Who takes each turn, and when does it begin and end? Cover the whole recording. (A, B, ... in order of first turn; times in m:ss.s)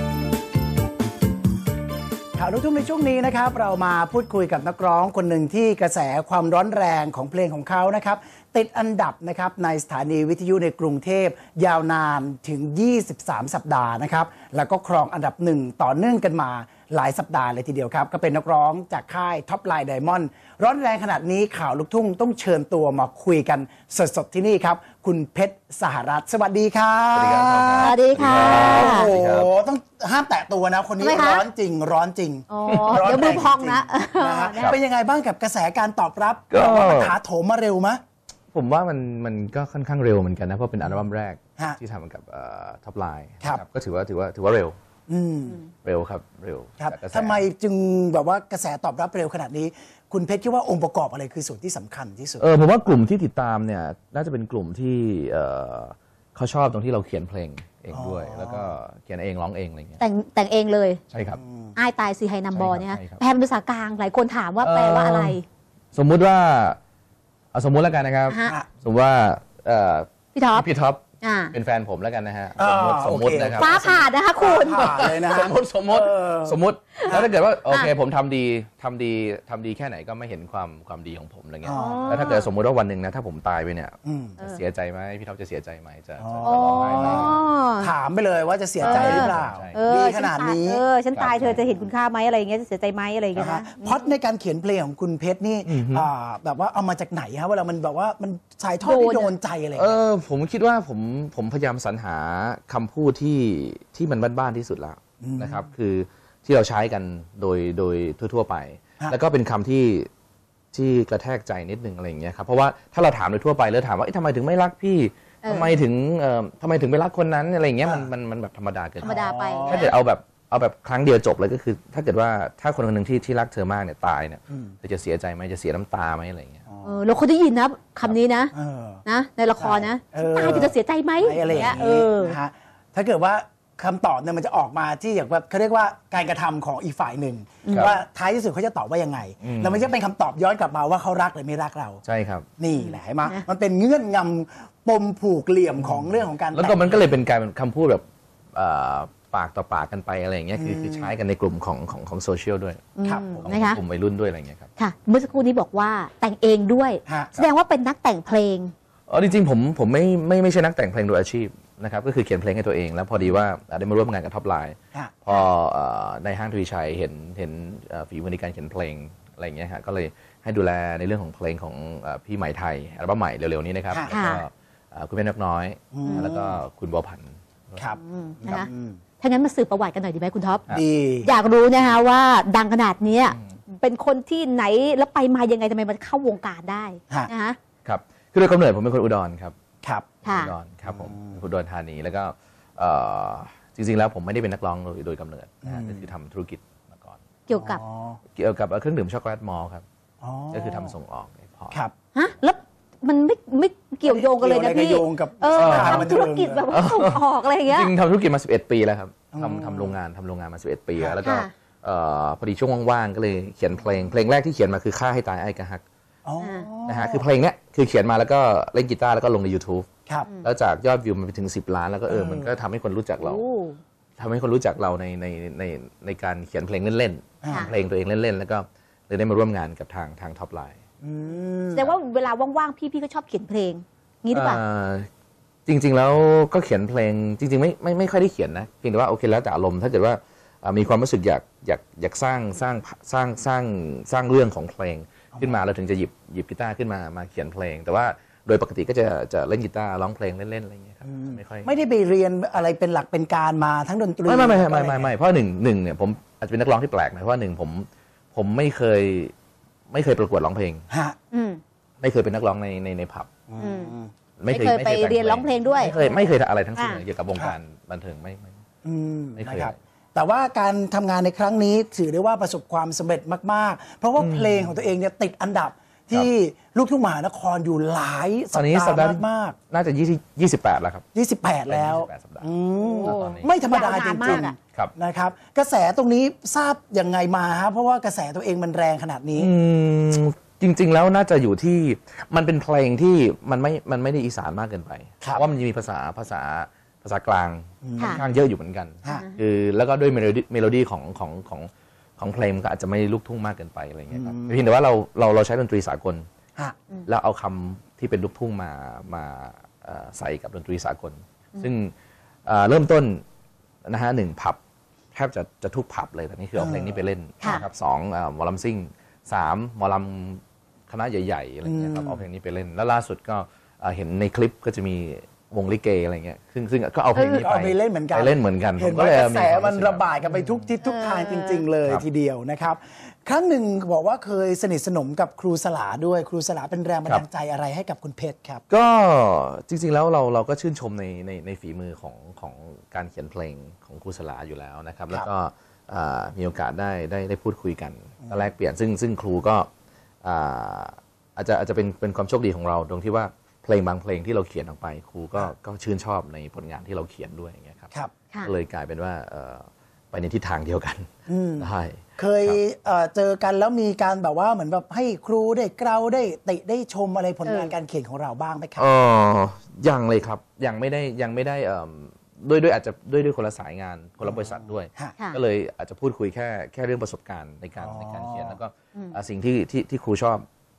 0:02.4-0:38.0 A
0:27.1-0:29.5 B
0:27.8-0:29.1 C
0:31.0-0:31.4 C
0:32.5-0:34.8 C
0:32.6-0:33.4 B
0:36.5-0:37.2 B
0:38.5-0:44.8 B
0:45.1-0:45.6 A
0:45.8-0:47.5 B
0:46.8-0:52.4 A
0:52.4-1:00.0 B
0:57.9-0:58.7 A
1:00.0-1:01.0 C
1:01.1-1:01.4 B
1:01.4-1:01.8 A
1:01.7-1:05.4 C
1:02.5-1:03.2 B
1:04.6-1:05.4 B
1:05.9-1:06.8 B
1:07.5-1:13.8 B
1:08.3-1:08.5 C
1:10.3-1:10.6 C
1:11.2-1:11.5 C
1:12.6-1:17.3 A
1:13.5-1:15.1 C
1:14.6-1:27.4 B
1:17.0-1:17.9 C
1:21.6-1:22.3 A
1:21.7-1:22.5 C
1:24.0-1:24.4 A
1:26.2-1:30.8 A
1:26.4-1:27.9 C
1:28.8-1:29.8 B
1:28.8-1:34.1 C
1:31.1-1:31.7 B
1:33.4-1:39.9 A
1:35.6-1:36.1 B
1:38.8-1:39.3 C
1:39.7-1:50.1 B
1:45.2-1:45.7 A
1:50.7-2:06.6 B
1:55.4-1:55.7 C
1:59.0-1:59.9 A
1:59.0-1:59.9 C
2:04.5-2:04.7 A
2:06.7-2:07.0 A
2:06.8-2:08.5 C
2:08.5-2:09.0 A
2:09.0-2:12.4 C
2:09.6-2:22.0 A
2:11.4-2:11.8 B
2:17.6-2:17.9 C
2:17.7-2:17.9 B
2:19.4-2:19.9 B
2:22.0-2:22.5 B
2:22.6-2:27.1 A
2:22.8-2:23.4 C
2:25.8-2:28.0 B
2:28.5-2:34.7 B
2:30.6-2:31.1 A
2:33.0-2:33.8 C
2:33.0-2:33.5 A
2:34.8-2:38.7 C
2:37.1-2:37.3 A
2:39.1-2:57.9 B
2:53.9-2:54.2 A
2:54.1-2:54.4 C
2:55.9-2:56.6 A
2:56.0-2:56.3 C
2:57.8-2:59.0 A
2:57.9-2:58.7 C
2:59.2-3:00.7 C
3:00.7-3:01.3 A
3:01.2-3:07.6 C
3:03.3-3:03.6 B
3:07.8-3:09.5 B
3:09.8-3:10.1 A
3:10.2-3:17.2 B
3:10.2-3:10.5 C
3:10.9-3:11.4 A
3:15.7-3:16.0 A
3:17.5-3:17.8 C
3:17.5-3:18.2 A
3:18.3-3:19.8 B
3:20.2-3:20.9 A
3:20.5-3:21.8 B
3:22.1-3:27.9 C
3:24.0-3:26.6 A
3:25.5-3:35.8 B
3:29.3-3:30.0 A
3:31.2-3:31.5 C
3:36.2-3:37.2 A
3:36.4-3:36.7 C
3:36.8-3:39.9 B
3:40.4-3:43.4 B
3:42.1-3:42.5 A
3:43.2-3:43.8 C
3:44.2-3:50.8 B
3:47.4-3:47.7 A
3:47.5-3:47.7 C
3:51.0-3:51.9 A
3:51.7-3:54.6 C
3:54.3-3:55.1 B
3:55.6-4:11.7 B
4:11.0-4:15.1 A
4:14.2-4:19.3 B
4:19.9-4:20.8 B
4:20.9-4:21.2 A
4:21.3-4:21.6 C
4:22.0-4:23.3 B
4:23.5-4:24.1 A
4:23.6-4:23.9 C
4:24.4-4:28.6 B
4:24.5-4:26.1 C
4:25.7-4:26.2 A
4:26.7-4:27.0 C
4:28.8-4:39.6 A
4:29.4-4:29.8 B
4:34.2-4:34.8 B
4:38.5-4:41.0 B
4:41.1-4:49.5 A
4:41.6-4:42.5 B
4:42.8-4:44.5 C
4:43.0-4:43.5 B
4:44.4-4:44.9 B
4:49.3-5:06.2 B
4:57.8-4:58.2 A
4:58.0-4:58.2 C
4:59.1-4:59.4 C
5:04.1-5:04.6 A
5:07.0-5:11.9 B
5:12.5-5:13.2 B
5:13.8-5:14.6 B
5:15.1-5:30.7 B
5:16.5-5:17.0 A
5:17.4-5:17.6 C
5:21.6-5:22.2 A
5:27.2-5:27.4 C
5:27.4-5:38.6 A
5:30.8-5:31.7 C
5:38.7-5:49.7 B
5:50.2-5:57.9 B
5:58.4-6:02.6 B
6:01.3-6:08.9 A
6:07.4-6:07.7 C
6:08.8-6:20.4 B
6:14.2-6:15.2 A
6:17.8-6:18.6 A